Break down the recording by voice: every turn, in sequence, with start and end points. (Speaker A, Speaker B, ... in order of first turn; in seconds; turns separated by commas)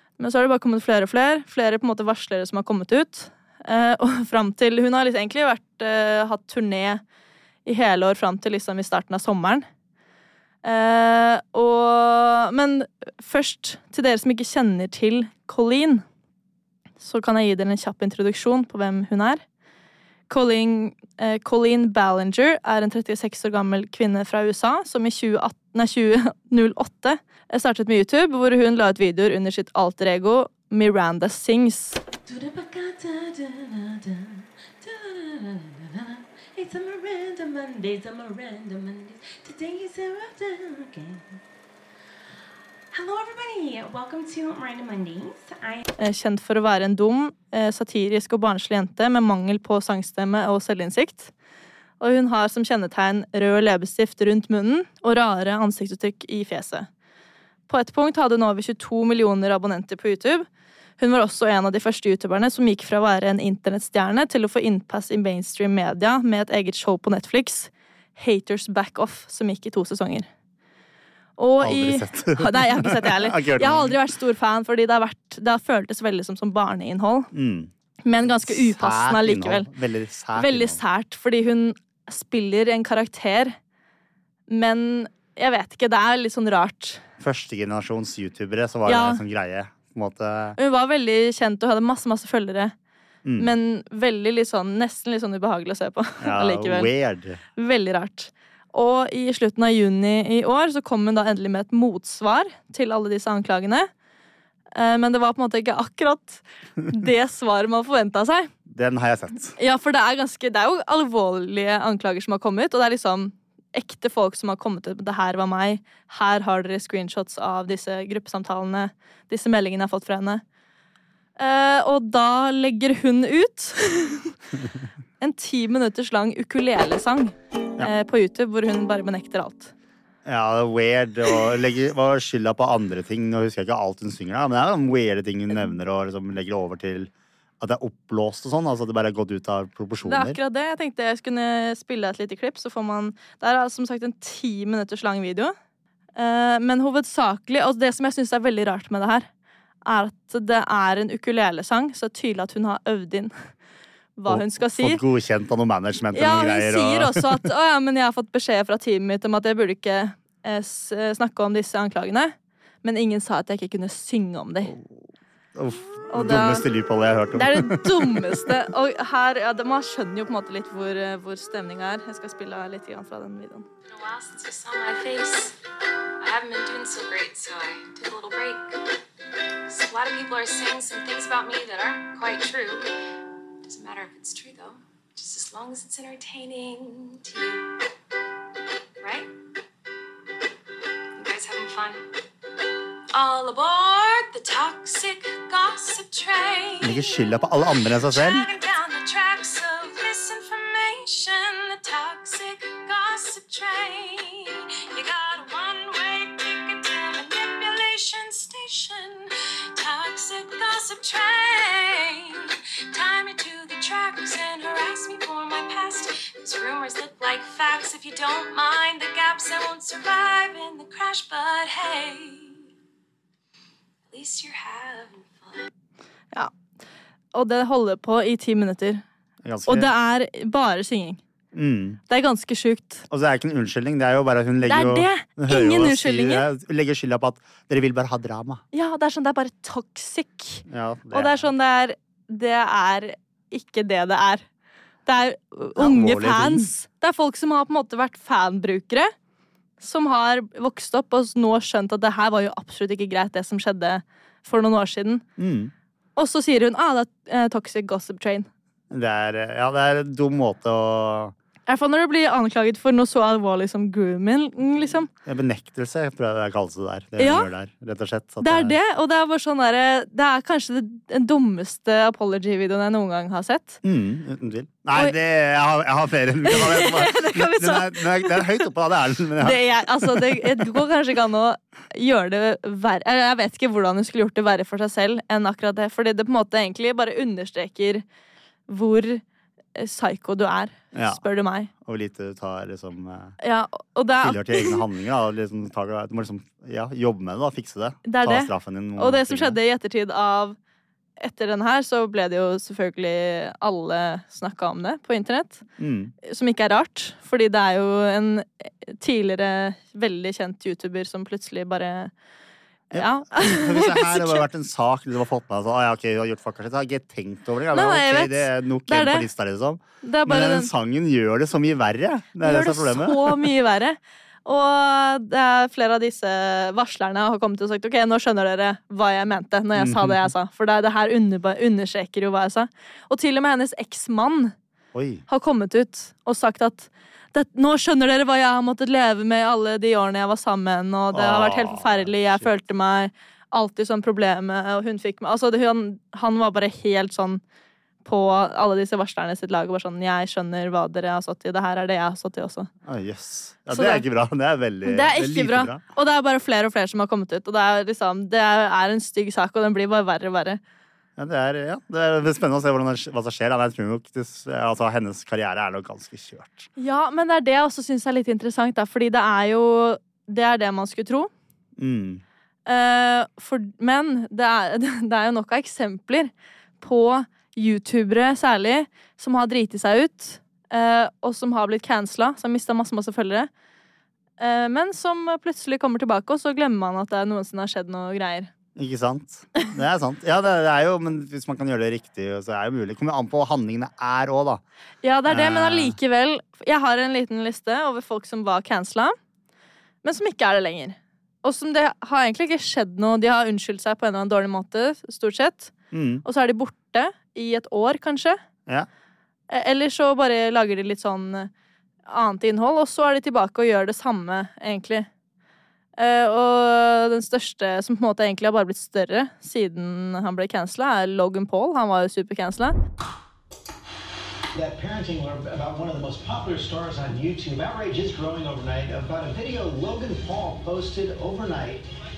Speaker A: 0.2-7.0, Speaker A: 7.6-9.6, Speaker A: 10.6-16.0, Speaker A: 17.0-19.4, Speaker A: 20.3-32.0, Speaker B: 32.2-41.4, Speaker B: 42.9-45.8, Speaker A: 46.0-51.3, Speaker A: 52.0-56.9, Speaker A: 57.7-60.5, Speaker A: 61.0-70.3, Speaker A: 71.4-77.3, Speaker C: 71.6-74.0, Speaker C: 77.3-77.7, Speaker A: 78.0-79.7, Speaker C: 78.2-80.8, Speaker A: 80.3-83.5, Speaker A: 84.5-87.0, Speaker C: 87.2-90.6, Speaker A: 88.8-89.2, Speaker A: 90.6-92.7, Speaker C: 93.2-93.5, Speaker A: 93.4-96.9, Speaker C: 96.2-97.4, Speaker A: 97.5-103.9, Speaker A: 104.7-108.5, Speaker C: 108.7-109.5, Speaker A: 109.6-120.4, Speaker A: 121.4-124.3, Speaker A: 125.2-129.7, Speaker C: 130.2-140.4, Speaker A: 140.0-145.5, Speaker A: 146.2-149.3, Speaker A: 149.8-153.3, Speaker A: 154.2-155.0, Speaker C: 154.3-157.3, Speaker A: 156.1-164.7, Speaker C: 164.7-165.0, Speaker C: 165.5-168.5, Speaker A: 166.1-166.6, Speaker A: 167.3-173.6, Speaker D: 173.9-175.5, Speaker D: 176.2-178.8, Speaker D: 179.7-182.9, Speaker D: 183.6-187.8, Speaker D: 189.0-189.3, Speaker D: 191.2-192.0, Speaker D: 193.1-222.6, Speaker C: 196.8-198.5, Speaker D: 224.1-225.6, Speaker A: 227.3-229.0, Speaker C: 229.4-229.9, Speaker A: 229.7-231.2, Speaker C: 231.5-232.0, Speaker A: 232.1-233.0, Speaker C: 233.1-238.6, Speaker A: 234.6-236.5, Speaker A: 238.7-244.4, Speaker C: 240.7-241.4, Speaker A: 245.1-249.1, Speaker C: 245.8-246.7, Speaker A: 249.8-255.2, Speaker C: 255.4-255.7, Speaker A: 256.1-258.5, Speaker C: 258.9-261.3, Speaker A: 261.7-265.1, Speaker C: 265.2-268.8, Speaker A: 267.2-267.5, Speaker A: 268.4-273.8, Speaker C: 273.8-280.6, Speaker A: 276.4-278.6, Speaker A: 279.4-288.0, Speaker A: 288.7-289.2, Speaker A: 289.8-291.7, Speaker C: 290.9-291.2, Speaker C: 291.8-293.4, Speaker A: 293.4-294.8, Speaker C: 294.2-299.6, Speaker A: 298.0-300.6, Speaker A: 301.2-305.6, Speaker C: 305.8-306.1, Speaker A: 306.2-312.1, Speaker A: 312.9-314.4, Speaker C: 312.9-323.5, Speaker A: 317.7-319.3, Speaker A: 320.0-320.7, Speaker A: 322.4-334.5, Speaker C: 329.7-330.3, Speaker C: 334.9-335.2, Speaker A: 335.3-347.4, Speaker C: 341.1-342.5, Speaker A: 348.0-352.7, Speaker C: 352.8-355.8, Speaker A: 353.7-354.0, Speaker A: 354.8-360.6, Speaker C: 361.2-366.7, Speaker A: 366.8-371.3, Speaker C: 371.8-372.2, Speaker A: 372.6-383.5, Speaker A: 384.4-388.5, Speaker C: 388.8-394.6, Speaker A: 395.0-399.1, Speaker C: 395.3-396.0, Speaker A: 400.0-405.7, Speaker C: 405.9-406.2, Speaker A: 406.2-408.4, Speaker A: 409.5-411.5, Speaker A: 412.1-415.1, Speaker A: 416.0-422.7, Speaker E: 424.5-431.8